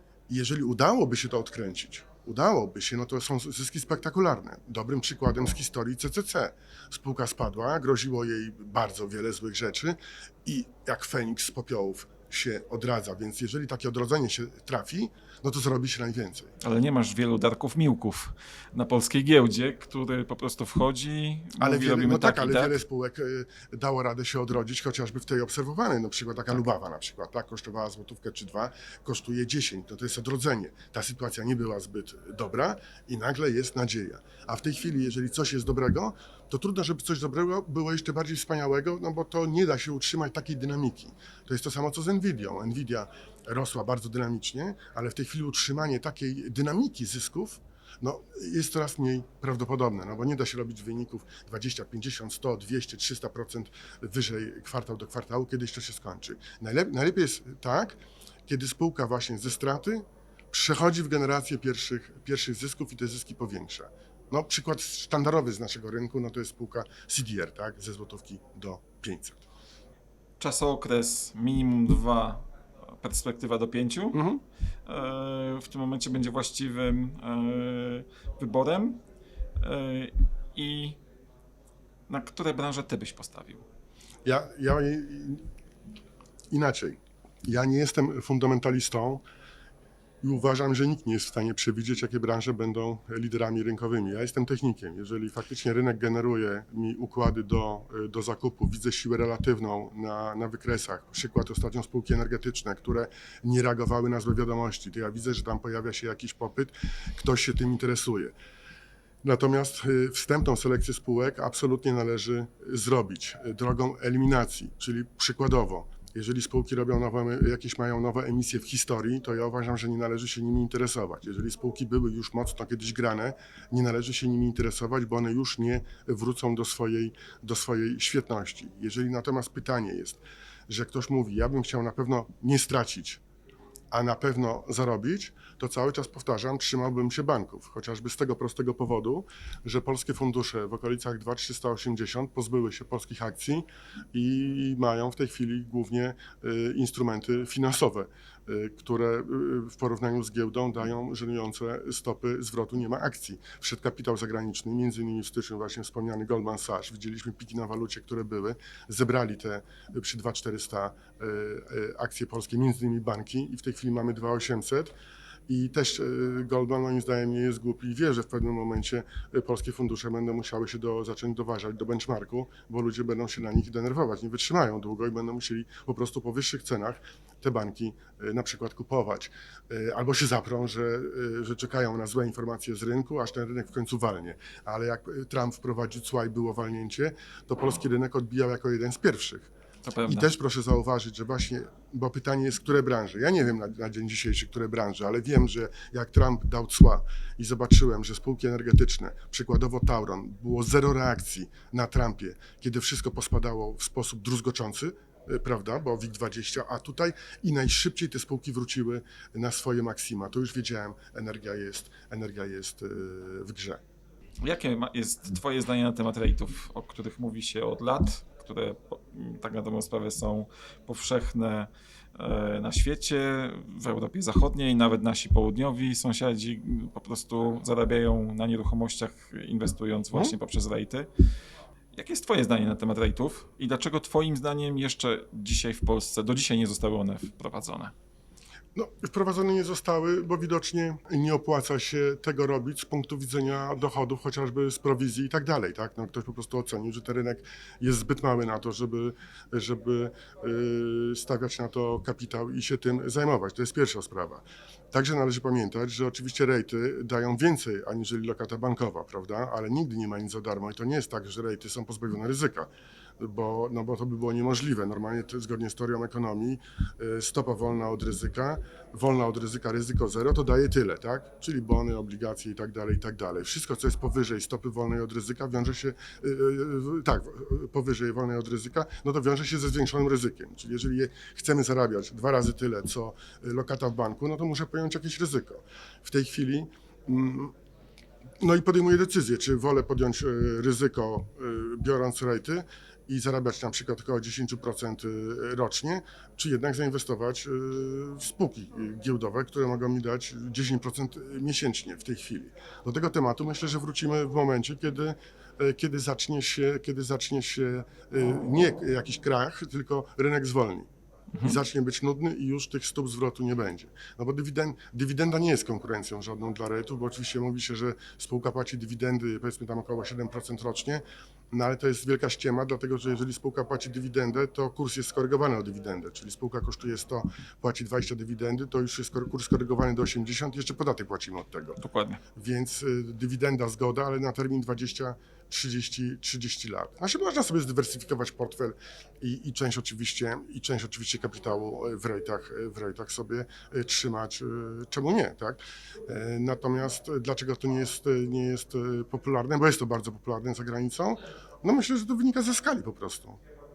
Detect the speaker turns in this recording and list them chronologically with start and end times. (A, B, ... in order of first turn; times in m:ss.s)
0:00.3-0:16.5 A
0:16.6-0:22.7 B
0:21.6-1:09.4 A
1:10.4-1:14.2 B
1:14.1-1:14.4 A
1:14.8-1:19.0 B
1:19.6-1:21.0 B
1:22.1-1:23.6 B
1:24.2-1:25.5 A
1:26.5-1:29.2 A
1:30.2-1:48.3 A
1:49.2-2:13.2 A
2:13.9-2:44.9 A
2:45.5-3:09.5 A
3:09.8-3:10.3 B
3:10.0-3:33.8 A
3:34.4-3:51.1 B
3:51.9-3:57.9 B
3:58.7-4:47.5 A
4:48.4-5:10.9 A
5:11.4-5:31.8 A
5:31.8-5:32.2 B
5:32.4-5:53.4 A